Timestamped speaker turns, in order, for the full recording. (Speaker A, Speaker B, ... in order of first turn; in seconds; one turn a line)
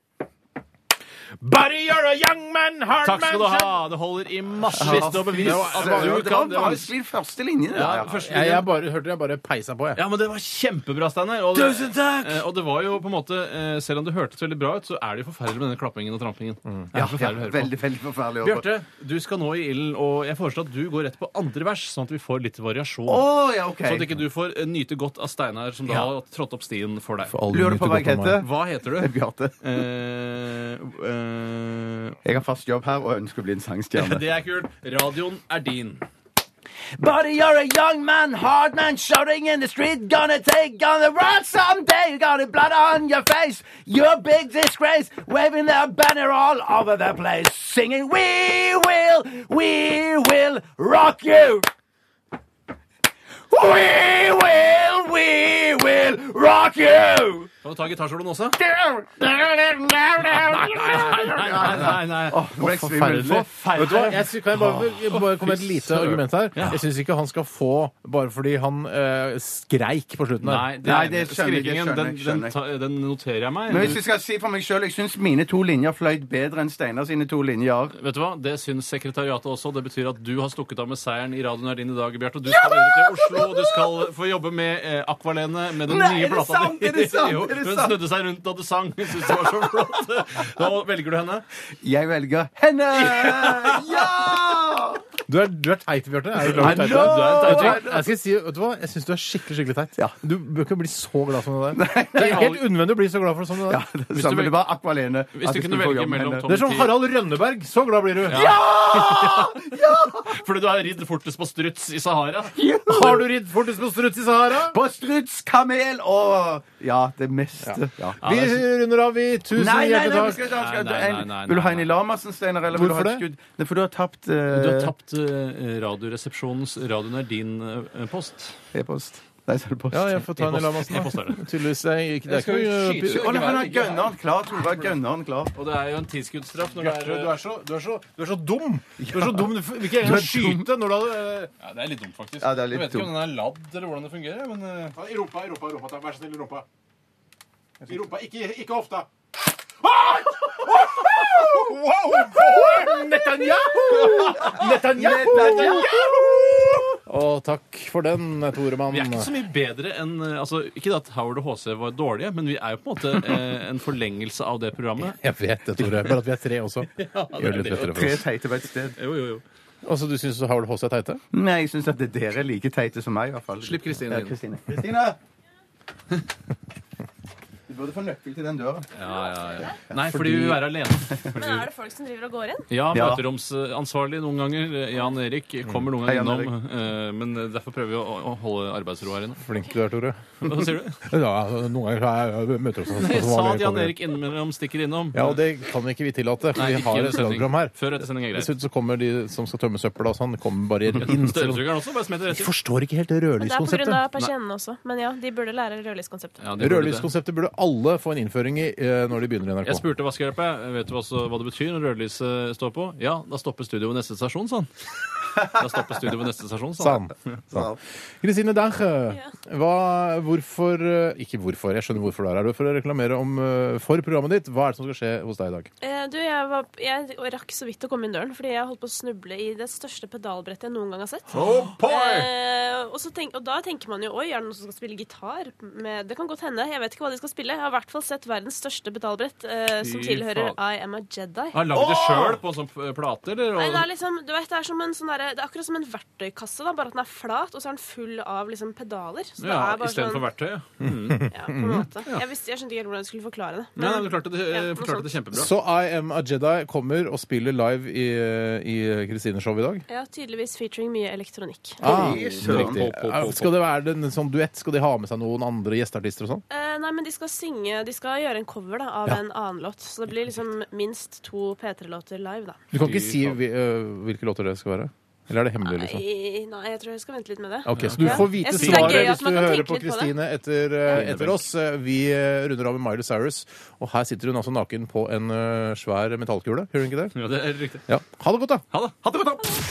Speaker A: 1.4-3.8
Speaker B: 3.0-6.9
Speaker A: 4.7-6.3
Speaker C: 4.8-8.5
Speaker B: 7.7-8.6
Speaker A: 8.1-10.0
Speaker B: 9.9-17.7
Speaker A: 11.5-12.4
Speaker C: 16.9-18.7
Speaker B: 18.4-27.4
Speaker C: 23.1-24.1
Speaker A: 27.3-28.4
Speaker C: 27.5-29.6
Speaker B: 28.4-32.2
Speaker C: 32.2-34.2
Speaker B: 33.9-36.0
Speaker C: 37.0-51.7
Speaker C: 53.5-57.5
Speaker B: 57.6-58.6
Speaker A: 58.6-70.8
Speaker B: 60.2-62.4
Speaker C: 61.6-64.3
Speaker B: 65.0-66.8
Speaker B: 70.4-74.0
Speaker C: 70.8-72.5
Speaker C: 73.7-78.0
Speaker B: 78.0-91.4
Speaker C: 82.5-83.9
Speaker C: 85.9-88.0
Speaker C: 89.4-89.7
Speaker C: 91.8-95.0
Speaker B: 93.0-93.8
Speaker A: 95.3-103.8
Speaker C: 96.5-98.1
Speaker B: 96.5-97.9
Speaker C: 101.7-102.5
Speaker B: 102.2-102.6
Speaker C: 103.7-106.4
Speaker B: 104.1-104.6
Speaker B: 105.3-106.9
Speaker A: 106.5-108.6
Speaker B: 108.3-109.6
Speaker C: 108.3-110.4
Speaker B: 110.1-112.5
Speaker C: 112.5-113.3
Speaker A: 112.8-114.8
Speaker C: 114.6-118.2
Speaker A: 117.6-120.4
Speaker B: 118.2-118.6
Speaker C: 119.5-124.9
Speaker B: 120.2-121.9
Speaker A: 122.7-123.2
Speaker B: 124.5-128.6
Speaker C: 128.7-130.2
Speaker A: 129.9-133.4
Speaker B: 130.3-131.5
Speaker B: 132.2-134.1
Speaker C: 133.1-135.5
Speaker B: 135.5-137.3
Speaker A: 136.8-141.5
Speaker C: 139.0-140.7
Speaker B: 141.6-144.9
Speaker C: 142.4-143.1
Speaker A: 144.9-146.7
Speaker A: 147.8-149.1
Speaker A: 149.8-159.3
Speaker C: 153.8-156.9
Speaker B: 158.9-165.2
Speaker A: 165.0-168.3
Speaker B: 166.9-168.1
Speaker C: 167.7-168.9
Speaker B: 168.9-169.4
Speaker A: 169.8-171.2
Speaker C: 171.3-175.2
Speaker B: 173.6-174.3
Speaker C: 177.7-178.9
Speaker B: 178.9-181.7
Speaker A: 180.0-180.6
Speaker D: 181.3-182.7
Speaker B: 182.7-189.4
Speaker C: 182.9-183.2
Speaker C: 186.0-186.5
Speaker A: 189.4-190.2
Speaker B: 190.4-191.1
Speaker A: 191.0-194.0
Speaker B: 192.9-195.4
Speaker A: 195.1-197.7
Speaker B: 196.6-198.5
Speaker A: 198.3-201.7
Speaker B: 201.0-202.5
Speaker A: 202.3-204.0
Speaker D: 203.4-206.4
Speaker B: 206.4-207.1
Speaker A: 206.6-209.8
Speaker B: 209.6-214.7
Speaker B: 215.3-217.4
Speaker A: 216.8-217.7
Speaker C: 217.5-217.8
Speaker A: 218.2-225.7
Speaker D: 225.8-241.7
Speaker B: 231.3-232.3
Speaker B: 239.8-240.6
Speaker B: 241.5-243.9
Speaker C: 241.7-242.4
Speaker D: 243.6-250.3
Speaker B: 249.4-251.3
Speaker A: 250.8-251.9
Speaker D: 251.3-255.2
Speaker B: 253.8-255.5
Speaker A: 255.3-259.8
Speaker D: 259.9-261.8
Speaker A: 261.8-266.4
Speaker C: 261.8-262.8
Speaker B: 261.9-263.5
Speaker D: 266.5-272.6
Speaker A: 272.7-276.0
Speaker B: 272.8-273.4
Speaker D: 275.6-280.1
Speaker A: 277.7-287.2
Speaker B: 277.7-279.1
Speaker B: 280.9-281.4
Speaker B: 287.1-287.9
Speaker A: 287.9-288.6
Speaker B: 288.7-289.4